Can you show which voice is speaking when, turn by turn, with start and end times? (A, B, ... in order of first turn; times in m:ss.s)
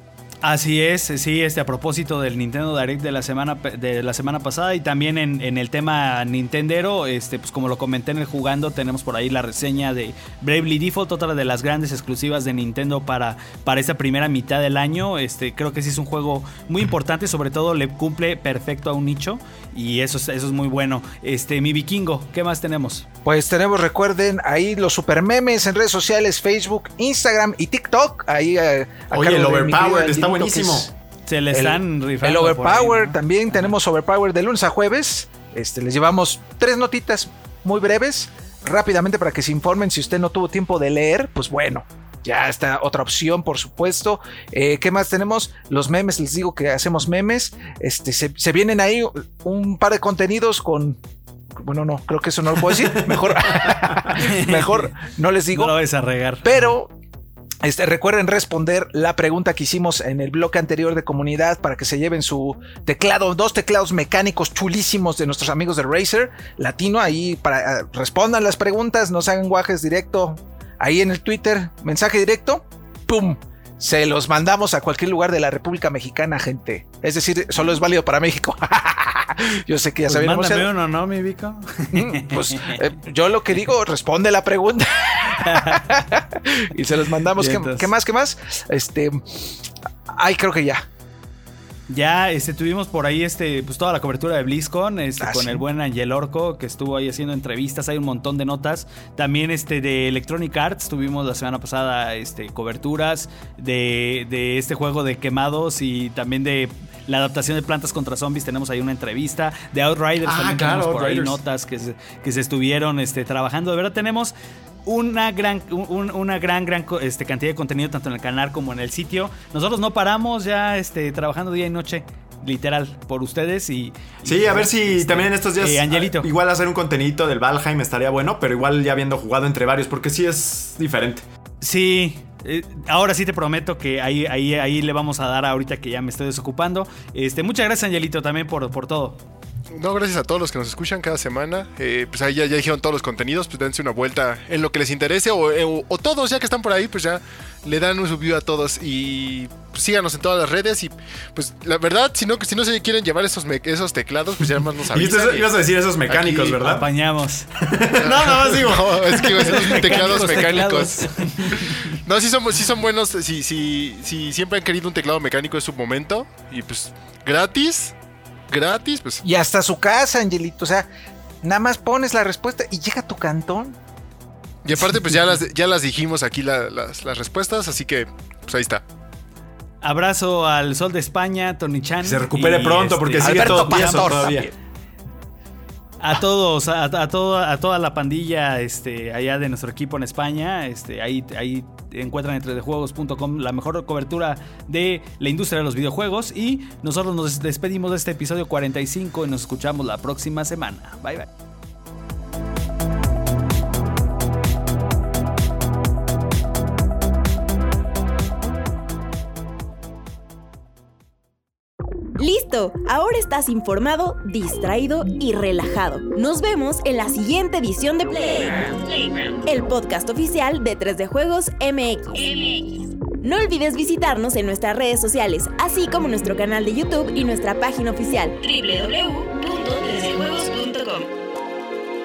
0:00.4-0:23.0 A
0:23.2-0:30.9 B
0:29.1-0:30.9 C
0:31.2-0:33.7 A
0:31.5-0:51.0 B
0:51.6-0:55.8 B
0:52.8-0:54.1 C
0:54.1-0:54.9 A
0:55.5-0:56.7 A
0:56.4-0:56.9 B
0:57.6-1:20.7 B
1:20.0-1:22.8 A
1:21.9-1:29.5 B
1:25.4-1:25.8 A
1:27.4-1:27.9 A
1:30.1-1:30.8 B
1:31.9-1:54.3 A
1:35.2-1:35.6 B
1:50.2-1:51.4 C
1:54.8-2:06.3 A
2:04.2-2:11.2 C
2:11.6-2:19.2 A
2:19.7-2:35.6 D
2:34.9-2:36.8 C
2:36.2-2:37.5 A
2:37.6-2:40.2 C
2:38.0-2:47.9 D
2:39.5-2:41.8 A
2:48.5-2:49.2 D
2:49.2-2:50.9 B
2:51.4-2:53.8 B
2:54.6-2:58.8 D
2:59.8-3:04.5 A
3:02.0-3:04.5 C
3:03.2-3:04.5 B
3:06.0-3:21.3 A
3:32.2-3:51.1 E